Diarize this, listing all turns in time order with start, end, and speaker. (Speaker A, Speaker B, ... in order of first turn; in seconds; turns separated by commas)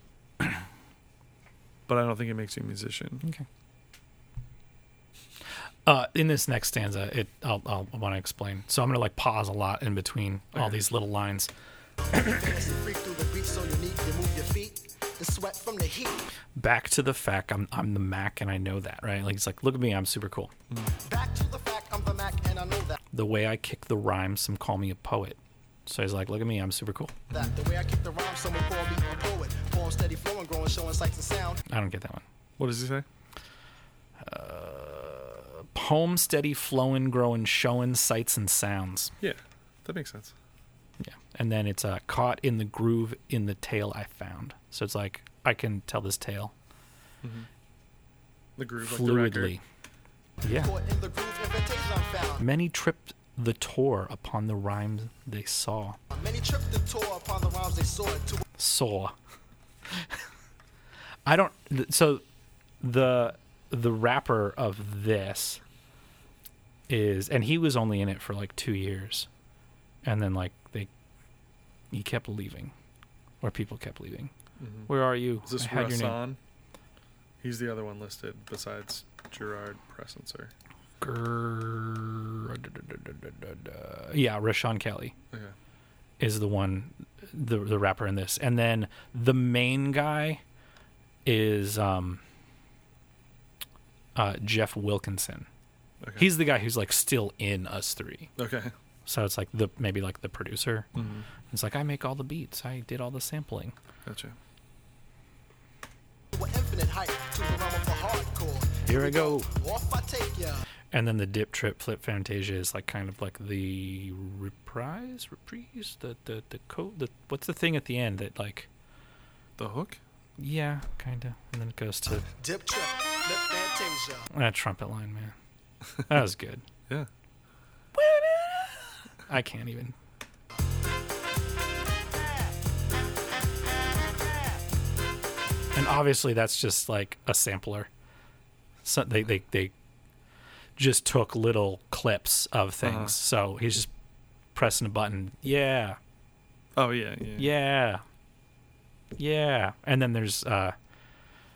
Speaker A: 0.4-0.7, Speaker B: 1.9-3.2, Speaker A: 5.9-11.5, Speaker B: 10.5-10.8, Speaker C: 12.0-16.2, Speaker A: 12.1-12.4, Speaker A: 16.6-20.5, Speaker C: 21.1-23.0, Speaker A: 23.1-27.2, Speaker C: 27.3-31.6, Speaker A: 31.7-32.2, Speaker B: 32.6-33.1, Speaker A: 34.2-39.1, Speaker B: 39.2-40.3, Speaker A: 41.0-46.5, Speaker B: 47.2-47.5, Speaker B: 48.6-49.5, Speaker A: 48.8-49.6, Speaker A: 50.4-50.7, Speaker C: 50.4-52.5, Speaker A: 52.4-56.0, Speaker C: 56.1-58.4, Speaker A: 58.6-59.1, Speaker A: 59.9-60.2, Speaker A: 61.3-62.2, Speaker A: 62.8-65.6, Speaker A: 66.9-69.3, Speaker A: 70.0-70.9, Speaker A: 71.9-72.7, Speaker A: 73.4-74.3, Speaker B: 74.6-74.9, Speaker A: 74.9-76.2, Speaker B: 75.4-76.4, Speaker B: 77.4-80.5, Speaker A: 81.0-85.1, Speaker A: 86.2-90.4, Speaker A: 91.2-92.2, Speaker A: 94.2-95.5, Speaker B: 96.0-96.3, Speaker A: 96.2-98.3, Speaker B: 98.4-98.7, Speaker A: 99.1-100.9, Speaker B: 101.0-101.3, Speaker A: 101.5-103.8, Speaker B: 104.0-104.4, Speaker C: 106.3-110.6, Speaker A: 108.8-109.5, Speaker A: 110.9-118.7, Speaker B: 119.6-120.0, Speaker A: 120.4-122.3, Speaker C: 122.4-124.3, Speaker A: 124.3-125.3, Speaker A: 126.0-126.7, Speaker A: 127.9-129.9, Speaker A: 135.7-137.9, Speaker A: 138.8-139.7, Speaker A: 140.8-143.9, Speaker B: 142.8-143.2, Speaker A: 144.6-146.0, Speaker B: 146.8-147.5, Speaker A: 147.4-148.0, Speaker A: 149.2-150.8